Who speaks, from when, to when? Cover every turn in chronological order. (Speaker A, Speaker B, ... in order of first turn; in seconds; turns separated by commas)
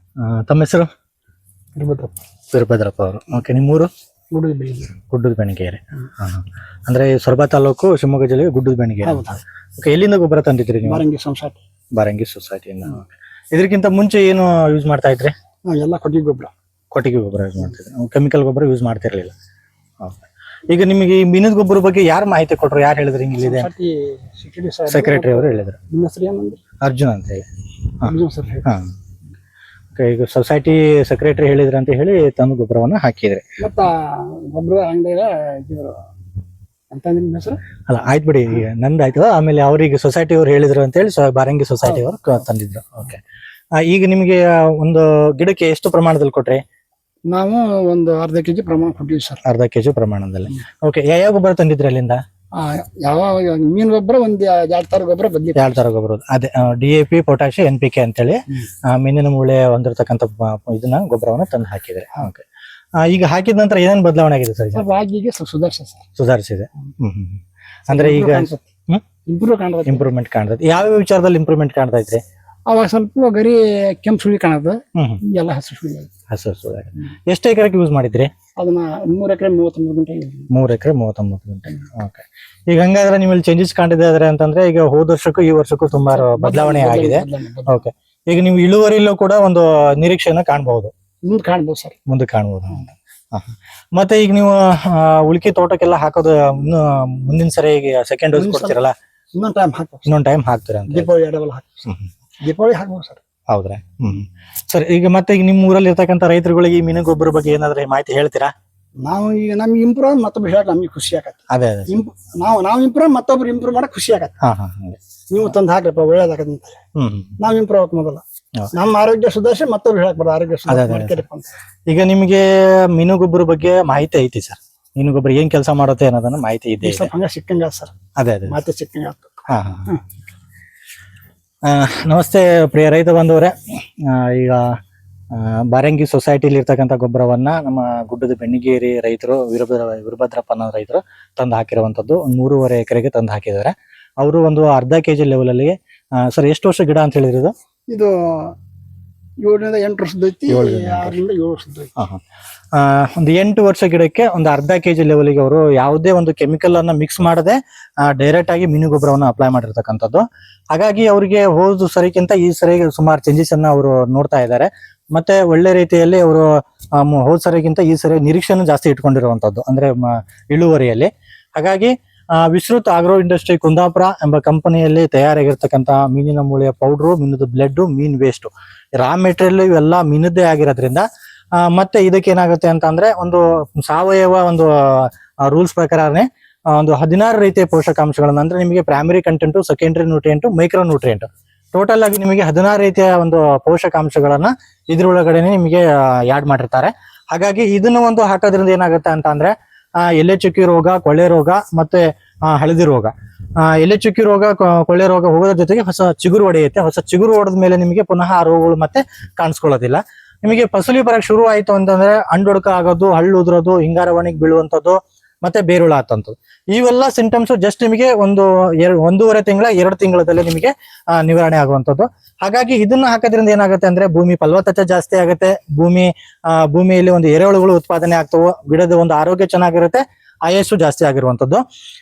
Speaker A: 0.2-0.9, Speaker B: 1.8-2.2, Speaker A: 2.5-3.9, Speaker B: 4.3-5.0, Speaker A: 5.1-11.0, Speaker B: 9.0-9.3, Speaker B: 10.8-11.6, Speaker A: 11.9-15.3, Speaker B: 15.7-16.5, Speaker A: 16.9-19.3, Speaker A: 20.0-23.7, Speaker B: 23.4-26.6, Speaker A: 24.9-25.8, Speaker A: 26.8-27.4, Speaker B: 28.0-28.7, Speaker A: 29.9-33.4, Speaker B: 33.6-36.1, Speaker B: 36.9-37.6, Speaker A: 37.9-43.2, Speaker A: 43.8-46.6, Speaker B: 47.3-49.4, Speaker A: 49.5-52.2, Speaker B: 52.5-55.8, Speaker A: 55.6-62.4, Speaker A: 63.0-64.8, Speaker B: 64.7-66.1, Speaker A: 66.2-69.0, Speaker B: 67.9-68.7, Speaker B: 69.2-70.1, Speaker A: 69.9-72.2, Speaker B: 72.7-76.1, Speaker A: 76.3-78.3, Speaker B: 78.6-80.5, Speaker A: 80.5-90.9, Speaker B: 86.1-87.9, Speaker B: 91.3-92.0, Speaker A: 92.1-99.0, Speaker B: 98.3-98.8, Speaker B: 99.3-100.1, Speaker A: 100.1-101.1, Speaker B: 100.9-103.2, Speaker A: 103.5-108.5, Speaker B: 109.0-114.3, Speaker A: 111.5-111.9, Speaker A: 114.4-115.0, Speaker B: 115.3-116.8, Speaker A: 117.0-117.3, Speaker B: 117.4-121.5, Speaker A: 120.7-121.2, Speaker A: 121.9-127.1, Speaker B: 126.8-127.9, Speaker A: 128.2-128.6, Speaker B: 128.5-130.0, Speaker A: 129.5-129.9, Speaker A: 131.7-134.6, Speaker A: 135.3-147.5, Speaker B: 147.9-148.6, Speaker B: 149.4-151.9, Speaker A: 150.5-151.2, Speaker A: 152.7-166.5, Speaker A: 167.0-181.1, Speaker A: 181.6-231.6